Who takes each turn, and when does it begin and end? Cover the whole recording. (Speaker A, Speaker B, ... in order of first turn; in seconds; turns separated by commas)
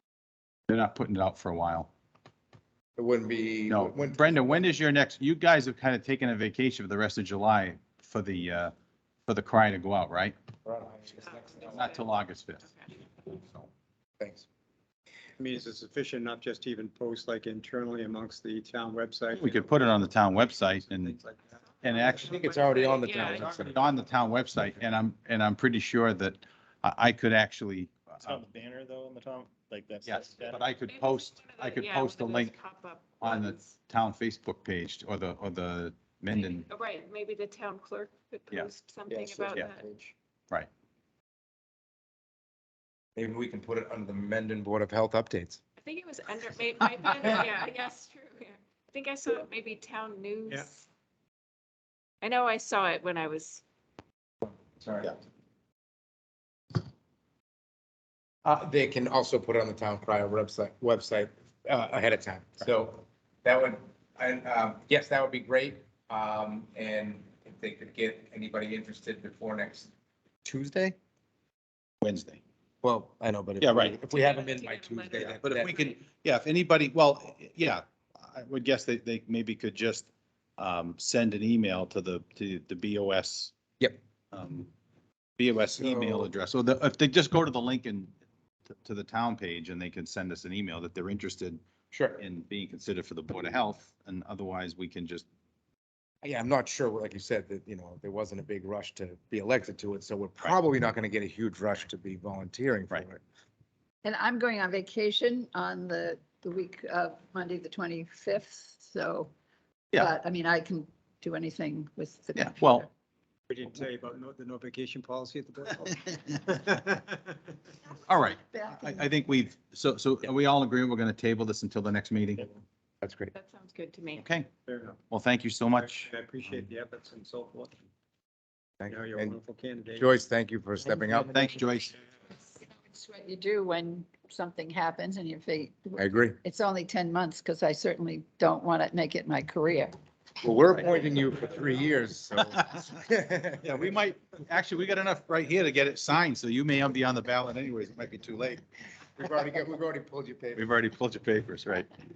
Speaker A: 0.7-1.9, Speaker B: 3.0-4.7, Speaker A: 3.7-8.7, Speaker A: 9.3-10.3, Speaker B: 10.7-12.0, Speaker A: 11.6-12.6, Speaker B: 13.4-13.7, Speaker B: 14.2-14.5, Speaker C: 15.4-19.6, Speaker A: 19.4-21.1, Speaker C: 21.0-21.4, Speaker D: 21.8-23.6, Speaker A: 21.8-22.4, Speaker B: 22.2-23.9, Speaker A: 23.4-28.4, Speaker E: 28.2-30.7, Speaker A: 30.0-32.5, Speaker D: 30.9-33.8, Speaker A: 33.2-36.6, Speaker D: 36.3-39.9, Speaker B: 39.1-40.1, Speaker B: 43.2-45.6, Speaker D: 45.8-50.9, Speaker D: 52.2-53.6, Speaker B: 54.5-55.1, Speaker B: 58.5-69.9, Speaker B: 70.5-71.0, Speaker A: 72.0-72.4, Speaker B: 72.8-75.7, Speaker A: 73.6-74.0, Speaker D: 74.0-76.0, Speaker A: 75.4-83.5, Speaker A: 84.3-84.7, Speaker A: 85.4-88.1, Speaker B: 85.8-86.3, Speaker A: 88.8-91.6, Speaker B: 91.9-92.2, Speaker A: 92.2-95.2, Speaker B: 96.2-103.2, Speaker F: 104.0-109.3, Speaker F: 109.9-112.8, Speaker A: 112.4-112.9, Speaker C: 113.5-115.9, Speaker C: 116.5-117.2, Speaker A: 118.1-122.5, Speaker F: 118.5-119.1, Speaker B: 123.0-123.3, Speaker D: 123.3-124.2, Speaker A: 124.2-124.5, Speaker C: 124.7-125.0, Speaker A: 125.1-126.6, Speaker C: 125.8-127.7, Speaker B: 128.8-129.4, Speaker C: 128.9-130.1, Speaker B: 129.9-131.5, Speaker A: 131.2-131.9, Speaker F: 132.5-139.9, Speaker B: 136.0-136.4, Speaker B: 140.4-143.7, Speaker A: 143.6-148.6, Speaker B: 149.2-150.7, Speaker A: 150.6-151.9